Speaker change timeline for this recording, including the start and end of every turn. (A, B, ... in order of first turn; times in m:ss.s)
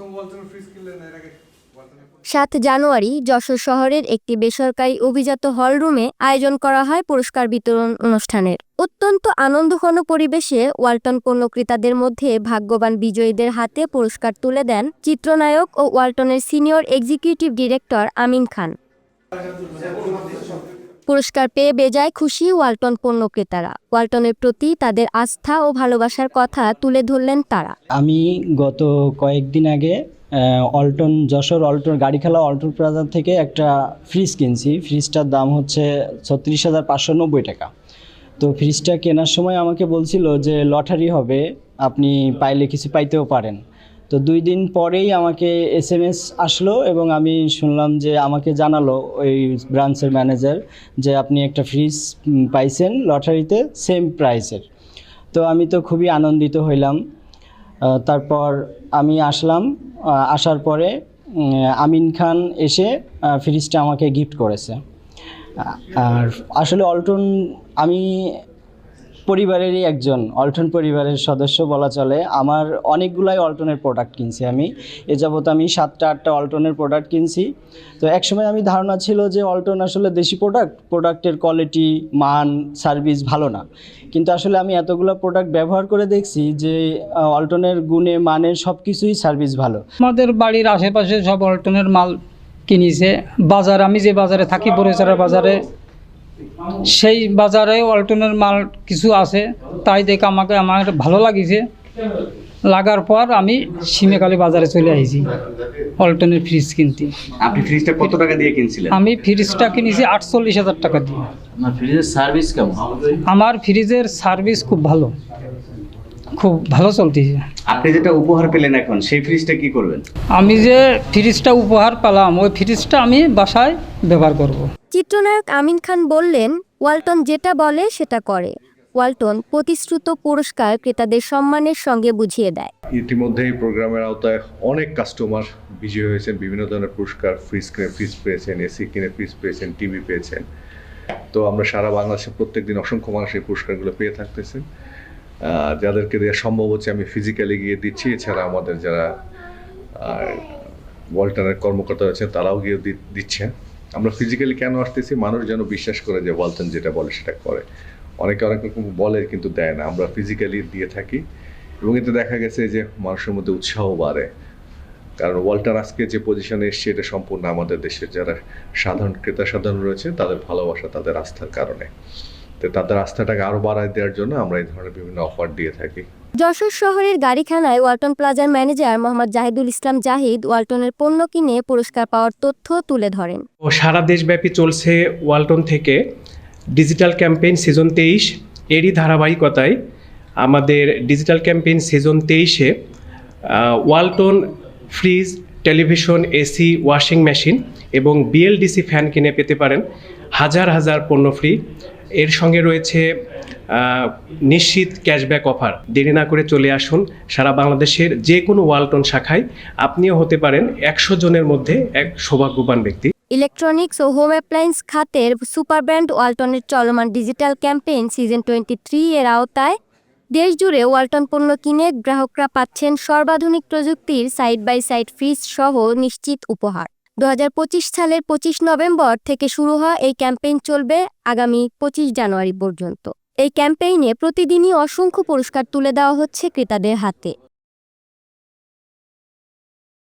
0:02.3-0:18.7 A
0:21.1-0:27.7 A
0:28.0-0:37.7 B
0:38.4-0:54.6 B
0:55.3-0:57.0 B
0:57.9-1:04.8 B
1:05.6-1:08.4 B
1:09.3-1:17.5 B
1:18.0-1:29.8 B
1:30.0-1:35.6 C
1:36.9-1:41.6 C
1:42.6-1:45.3 C
1:46.0-1:47.1 C
1:47.4-1:49.0 D
1:48.9-1:51.2 C
1:51.7-1:53.0 D
1:53.3-1:55.1 C
1:56.4-1:57.4 C
1:57.7-2:00.0 D
2:00.3-2:04.7 C
2:04.9-2:12.7 A
2:13.0-2:20.4 E
2:21.3-2:24.6 E
2:25.4-2:29.1 E
2:30.0-2:30.6 E
2:31.1-2:37.6 E
2:38.2-2:41.2 E
2:41.8-2:44.3 E
2:45.2-2:51.9 E
2:52.6-2:56.0 E
2:56.4-3:03.4 A
3:03.6-3:06.0 F
3:06.8-3:09.7 F
3:10.4-3:12.7 F
3:13.5-3:19.8 F
3:20.4-3:21.6 F
3:22.2-3:23.0 F
3:23.7-3:33.1 F
3:33.3-3:39.8 A
3:40.3-3:57.3 A